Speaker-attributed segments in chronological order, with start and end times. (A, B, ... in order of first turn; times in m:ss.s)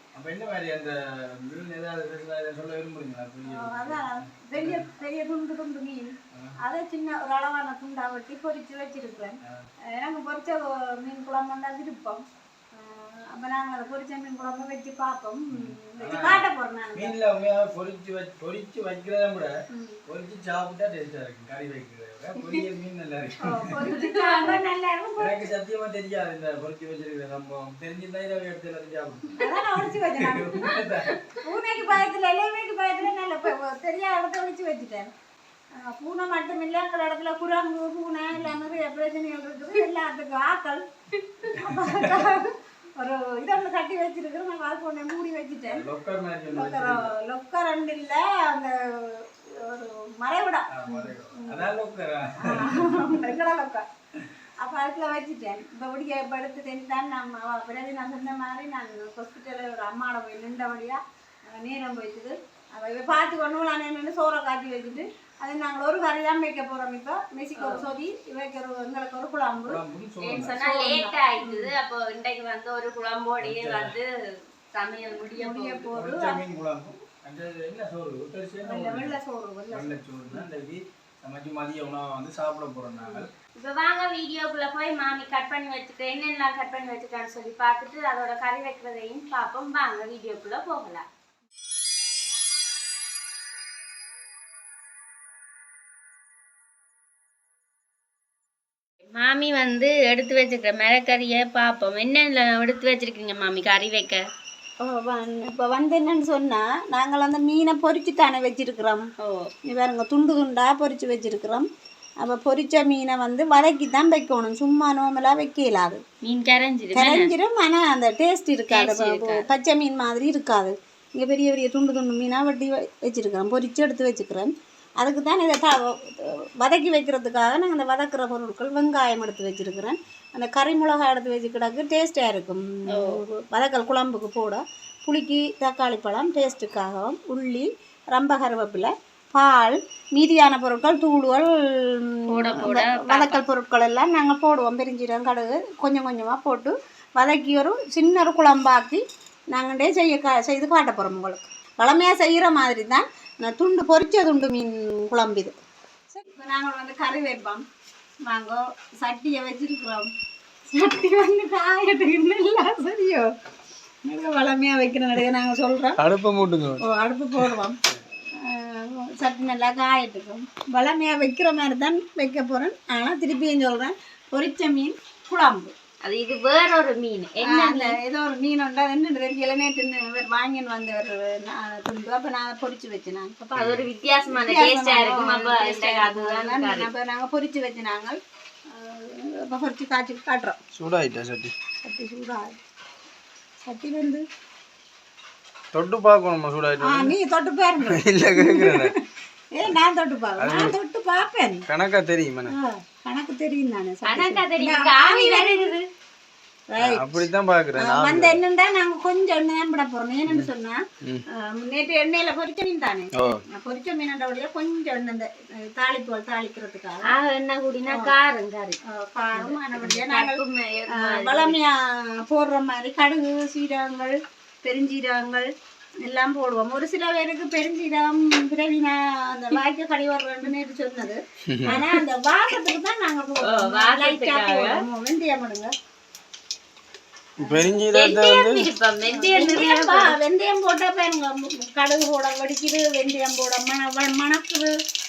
0:00.2-0:04.9 A
0:03.4-0:17.2 B
0:15.5-0:19.6 A
0:19.7-0:20.0 B
0:20.1-0:23.7 A
0:23.4-0:25.5 B
0:23.8-0:24.6 C
0:25.2-0:31.1 A
0:29.4-0:30.8 B
0:31.1-0:31.4 C
0:31.4-0:35.1 B
0:35.7-0:40.8 B
0:41.4-0:45.9 B
0:41.5-0:42.3 A
0:45.7-0:47.1 A
0:46.5-0:51.7 B
0:50.7-0:53.2 A
0:52.4-0:53.9 B
0:54.6-1:09.8 B
1:07.6-1:07.9 C
1:09.7-1:10.6 A
1:10.2-1:14.1 C
1:10.3-1:11.7 B
1:13.4-1:14.0 A
1:14.7-1:15.9 C
1:15.4-1:16.4 B
1:15.9-1:19.2 A
1:18.6-1:20.5 B
1:19.7-1:23.3 A
1:23.6-1:31.0 C
1:39.1-1:44.2 C
1:44.8-1:49.1 B
1:49.2-1:49.5 C
1:49.6-1:51.7 B
1:52.2-1:56.0 B
1:56.2-1:57.3 C
1:56.9-2:35.5 B
1:58.7-1:59.5 C
2:12.9-2:13.2 C
2:22.3-2:23.4 C
2:36.1-2:37.6 B
2:38.3-2:40.1 B
2:40.7-2:43.3 B
2:44.0-2:46.0 B
2:46.0-2:46.9 A
2:46.8-2:47.8 B
2:48.3-2:55.7 B
2:56.0-2:58.0 C
2:57.4-3:03.5 B
3:03.5-3:06.9 C
3:03.6-3:03.8 A
3:04.3-3:08.2 B
3:08.7-3:10.6 B
3:10.7-3:11.5 A
3:11.8-3:12.6 B
3:13.6-3:14.2 B
3:15.7-3:17.2 A
3:16.8-3:21.6 B
3:17.8-3:18.9 A
3:20.4-3:20.8 A
3:21.7-3:22.6 A
3:22.5-3:25.8 B
3:24.0-3:25.9 C
3:26.7-3:27.2 B
3:26.8-3:28.4 A
3:27.8-3:37.1 B
3:33.1-3:33.4 A
3:37.0-3:38.8 C
3:37.9-3:38.1 B
3:38.8-3:40.4 B
3:39.4-3:41.6 C
3:40.9-3:45.5 B
3:46.0-3:55.7 B
3:51.5-3:51.8 A
3:53.4-3:54.8 C
3:57.4-3:58.7 A
3:57.4-3:57.8 B
3:57.9-4:00.2 C
3:59.1-4:04.7 B